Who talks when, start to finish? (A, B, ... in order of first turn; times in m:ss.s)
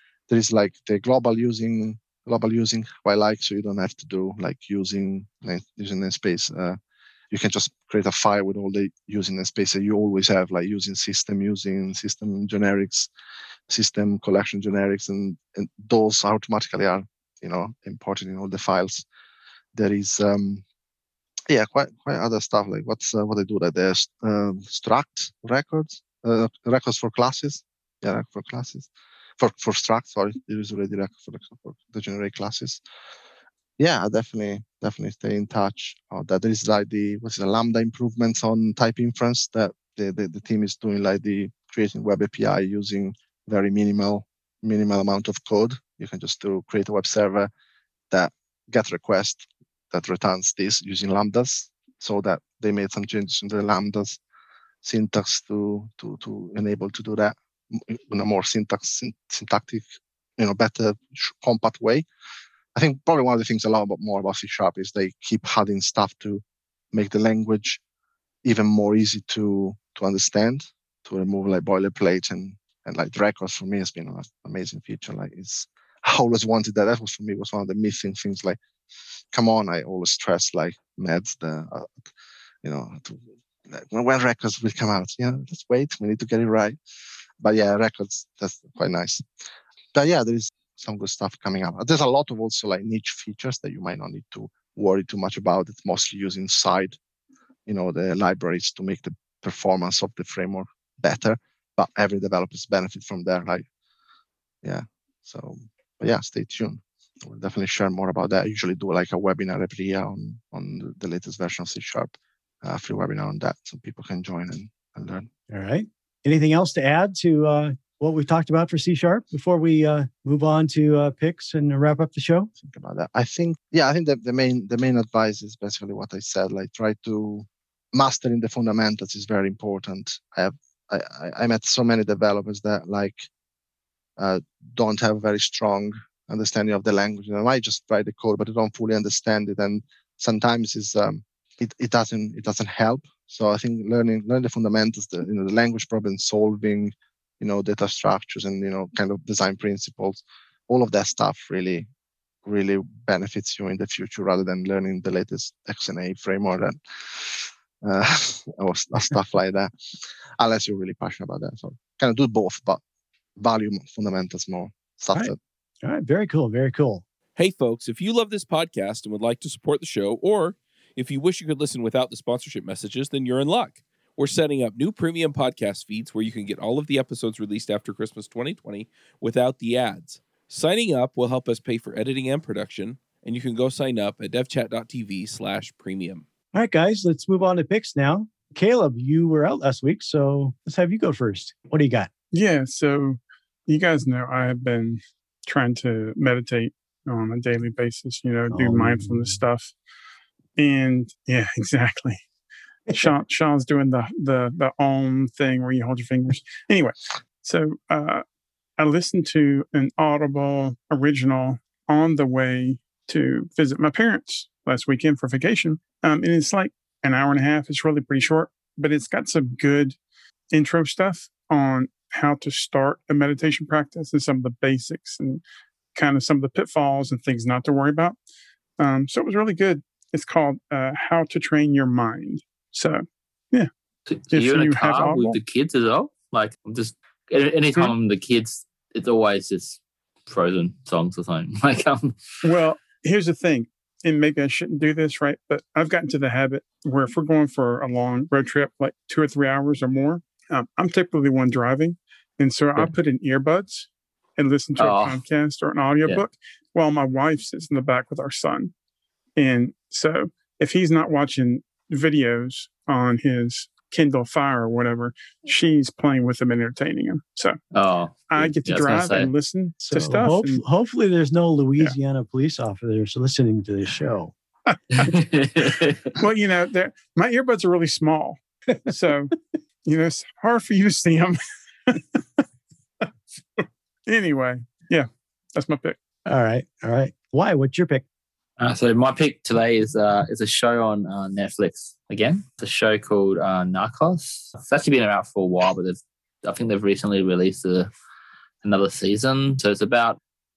0:00.3-0:06.8 A
0:07.3-0:13.1 A
0:13.7-0:19.0 A
0:19.7-0:20.6 A
0:21.5-0:32.8 A
0:33.8-0:47.5 A
0:48.1-0:54.2 A
0:54.8-0:59.8 A
1:00.4-1:02.0 A
1:02.7-1:07.8 A
1:08.4-1:18.6 A
1:19.3-1:22.1 A
1:22.6-1:26.8 A
1:27.4-1:29.2 A
1:29.9-1:37.0 A
1:37.7-1:43.6 A
1:44.6-1:55.3 A
1:55.5-2:02.5 B
2:02.6-2:13.3 A
2:14.2-2:31.9 A
2:32.4-2:39.7 A
2:40.4-2:42.8 A
2:43.4-2:45.4 A
2:45.1-2:47.0 B
2:47.4-3:06.2 C
3:06.5-3:12.1 B
3:12.3-3:19.7 D
3:18.5-3:19.4 B
3:20.6-3:22.2 D
3:22.9-3:28.2 D
3:28.8-3:40.0 D
3:40.5-3:45.4 D
3:46.0-3:48.2 D
3:48.8-3:53.7 D
3:54.1-4:02.2 E
3:54.3-3:55.4 D
4:02.4-4:18.7 D
4:14.8-4:15.2 E
4:19.4-4:27.6 D
4:27.7-4:29.3 E
4:28.3-4:30.6 D
4:29.8-4:34.3 B
4:35.0-4:36.1 E
4:35.6-4:39.3 D
4:39.8-4:42.4 D
4:43.0-4:46.0 D
4:46.3-4:48.0 B
4:48.6-4:57.9 E
4:58.6-5:00.2 E